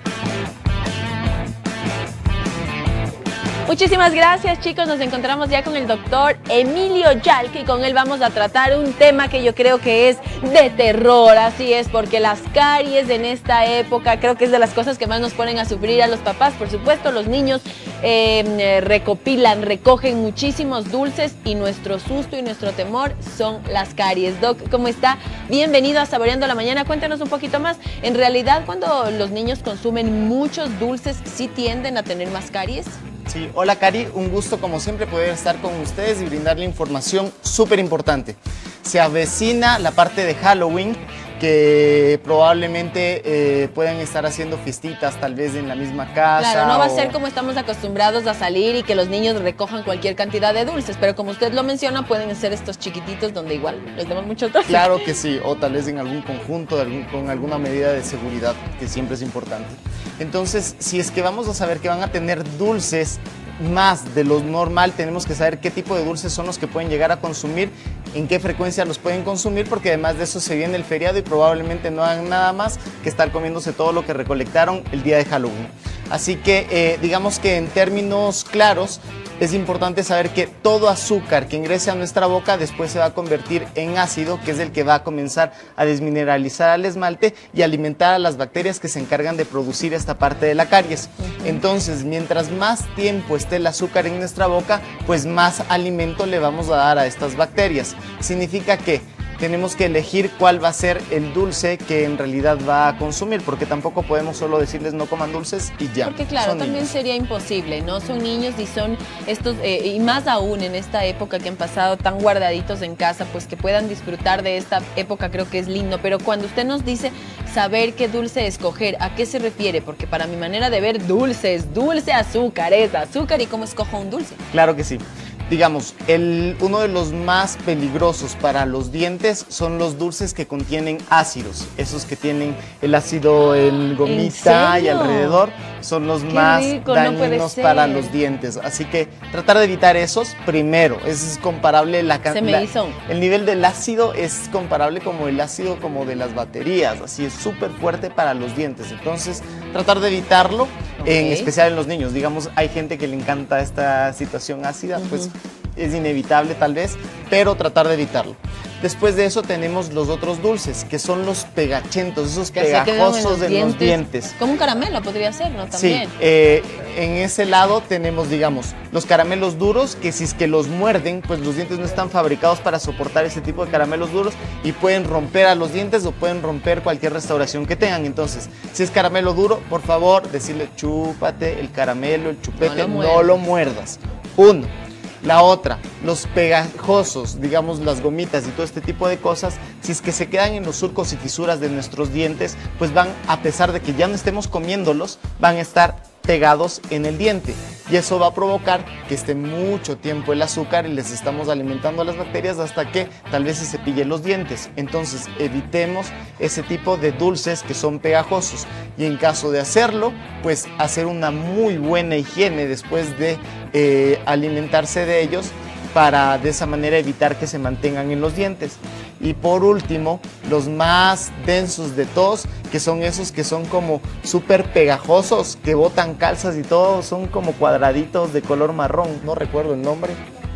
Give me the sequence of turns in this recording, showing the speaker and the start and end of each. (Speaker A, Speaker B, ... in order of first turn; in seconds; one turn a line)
Speaker A: 3.7-33.0
Speaker B: 33.3-47.1
Speaker A: 46.4-55.1
Speaker B: 54.6-106.9
Speaker A: 91.3-91.6
Speaker A: 106.0-124.4
Speaker B: 124.5-164.3
Speaker A: 134.0-135.4
Speaker A: 136.3-138.1
Speaker A: 142.3-143.0
Speaker A: 151.0-151.5
Speaker A: 155.0-155.3
Speaker A: 162.5-166.1
Speaker B: 165.7-184.7
Speaker A: 182.6-183.3
Speaker B: 185.2-230.2